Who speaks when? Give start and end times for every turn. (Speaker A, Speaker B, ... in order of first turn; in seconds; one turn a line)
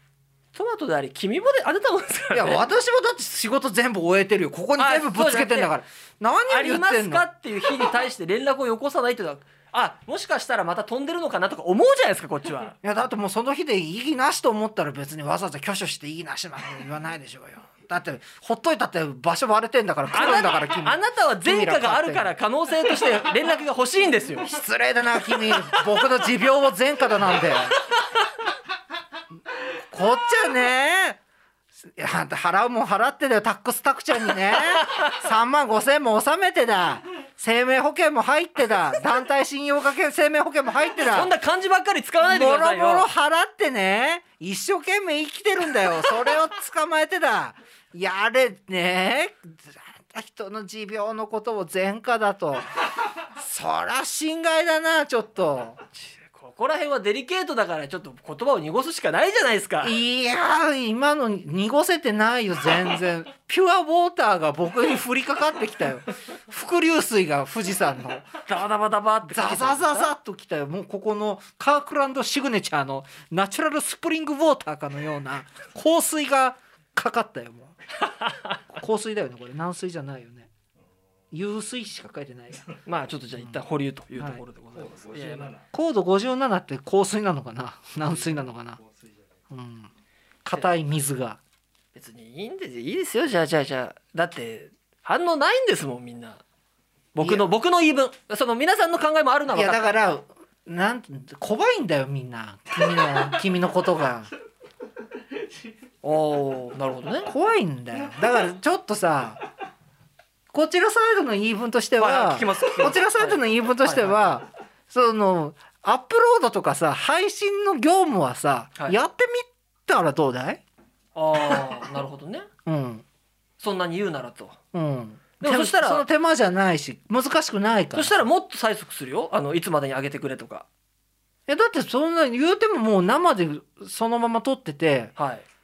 Speaker A: 0.5-2.6
Speaker B: 2.3-7.2
Speaker A: 4.8-5.7
Speaker A: 6.5-12.8
Speaker B: 12.8-22.3
Speaker A: 20.1-24.5
Speaker B: 24.4-27.8
Speaker B: 29.9-31.2
Speaker B: 31.8-41.3
Speaker A: 34.8-35.1
Speaker A: 41.1-43.1
Speaker B: 42.2-52.6
Speaker B: 53.3-55.8
Speaker A: 55.9-60.0
Speaker B: 59.8-68.3
Speaker A: 68.4-70.1
Speaker B: 69.3-77.7
Speaker A: 78.1-78.6
Speaker B: 78.7-80.5
Speaker B: 81.3-82.6
Speaker A: 82.8-85.5
Speaker C: 84.7-85.7
Speaker B: 85.7-88.8
Speaker C: 88.0-89.4
Speaker B: 89.5-89.9
Speaker B: 90.4-91.4
Speaker A: 91.9-96.4
Speaker A: 97.1-99.8
Speaker B: 97.2-97.5
Speaker B: 99.5-104.3
Speaker A: 106.0-107.3
Speaker B: 107.2-109.4
Speaker B: 110.5-120.6
Speaker A: 112.0-114.3
Speaker A: 121.1-122.5
Speaker B: 122.7-123.0
Speaker A: 123.6-124.6
Speaker B: 124.7-128.2
Speaker A: 125.4-126.0
Speaker A: 127.9-130.7
Speaker B: 131.5-135.1
Speaker A: 135.2-135.4